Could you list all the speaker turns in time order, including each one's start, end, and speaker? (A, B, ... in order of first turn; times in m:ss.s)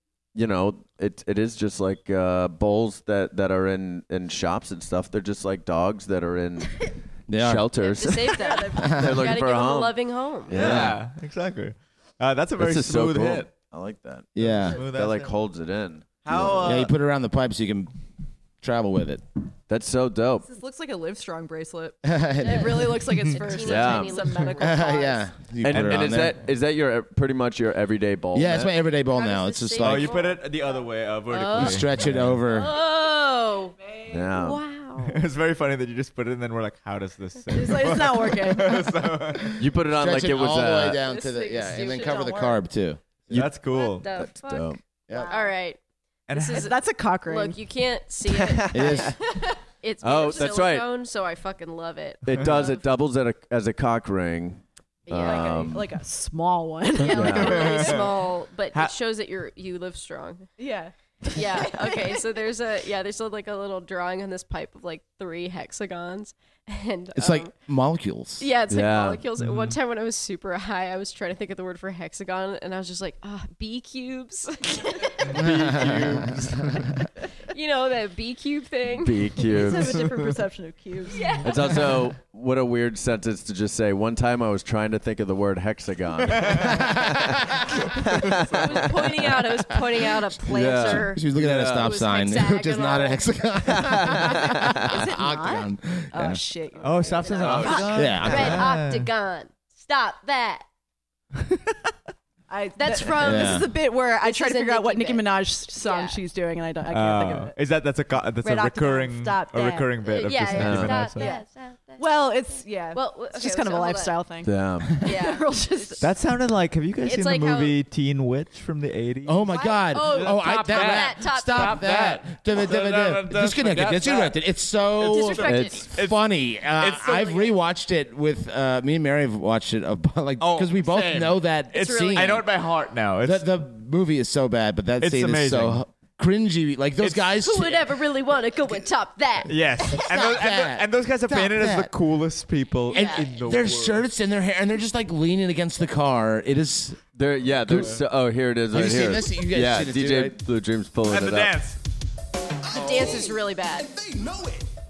0:00.3-0:11.0 A
0:07.3-0:07.7 B
0:07.8-0:10.6 C
0:08.3-0:08.8 D
0:08.8-0:09.2 B
0:10.5-0:13.5 E
0:10.5-0:11.0 B
0:12.6-0:16.8 A
0:14.3-0:14.8 B
0:14.7-0:15.3 E
0:16.2-0:16.9 E
0:16.6-0:17.9 B
0:18.6-0:19.2 B
0:19.7-0:20.5 A
0:20.4-0:25.0 D
0:22.0-0:23.0 B
0:22.4-0:25.3 C
0:23.6-0:24.4 A
0:24.6-0:26.4 B
0:25.6-0:28.7 A
0:25.7-0:26.4 E
0:28.3-0:30.3 B
0:29.1-0:30.4 C
0:29.8-0:32.6 E
0:31.3-0:31.8 C
0:31.5-0:32.7 B
0:32.5-0:33.8 C
0:33.9-0:34.2 D
0:34.1-0:34.6 A
0:34.3-0:35.2 C
0:35.0-0:39.6 E
0:37.5-0:39.0 D
0:39.6-0:41.0 A
0:39.9-0:43.5 B
0:41.0-0:42.6 C
0:41.7-0:42.3 D
0:43.3-0:44.0 E
0:43.7-0:46.7 C
0:44.0-0:44.8 A
0:45.1-0:45.3 B
0:45.1-0:45.5 D
0:46.3-0:46.7 E
0:46.5-0:47.6 D
0:47.2-0:52.8 C
0:48.3-0:49.2 A
0:48.7-0:49.1 B
0:50.0-0:50.9 A
0:52.2-0:55.9 A
0:55.1-0:55.7 C
0:55.1-0:58.0 D
0:57.0-1:00.5 C
0:57.1-0:57.8 A
0:57.2-0:58.2 E
1:00.6-1:02.2 D
1:01.3-1:07.5 C
1:07.2-1:08.5 B
1:08.4-1:15.4 C
1:08.7-1:09.2 A
1:09.4-1:09.8 E
1:15.3-1:16.9 A
1:15.3-1:16.8 B
1:17.4-1:19.5 C
1:19.0-1:20.0 A
1:19.5-1:21.4 D
1:21.1-1:21.9 C
1:21.4-1:28.9 A
1:26.3-1:26.7 E
1:26.7-1:27.6 B
1:28.5-1:31.2 C
1:30.5-1:31.9 A
1:30.5-1:36.4 B
1:31.8-1:33.3 C
1:33.7-1:34.9 A
1:34.3-1:38.0 D
1:36.8-1:39.1 E
1:37.2-1:40.6 C
1:37.4-1:38.5 A
1:37.9-1:38.7 B
1:42.5-1:47.5 D
1:42.8-1:46.2 C
1:43.2-1:43.7 B
1:46.9-1:51.3 E
1:48.4-1:49.9 D
1:50.0-1:54.2 C
1:50.6-1:51.0 A
1:51.2-1:51.4 D
1:52.0-1:56.1 D
1:54.4-1:54.9 A
1:55.0-1:56.1 C
1:56.0-2:04.4 E
1:57.0-1:57.8 C
1:59.2-2:12.5 B
1:59.5-2:01.8 C
2:05.0-2:07.6 E
2:05.0-2:05.9 C
2:05.5-2:05.8 A
2:10.4-2:13.5 E
2:11.7-2:12.4 C
2:13.2-2:17.9 B
2:15.0-2:15.8 E
2:17.0-2:17.3 E
2:17.4-2:19.6 C
2:19.5-2:24.0 E
2:19.9-2:21.9 B
2:22.9-2:23.3 C
2:22.9-2:27.0 B
2:27.1-2:31.6 A
2:27.6-2:28.0 B
2:28.7-2:30.4 B
2:31.1-2:31.8 E
2:32.6-2:34.7 F
2:32.7-2:33.9 C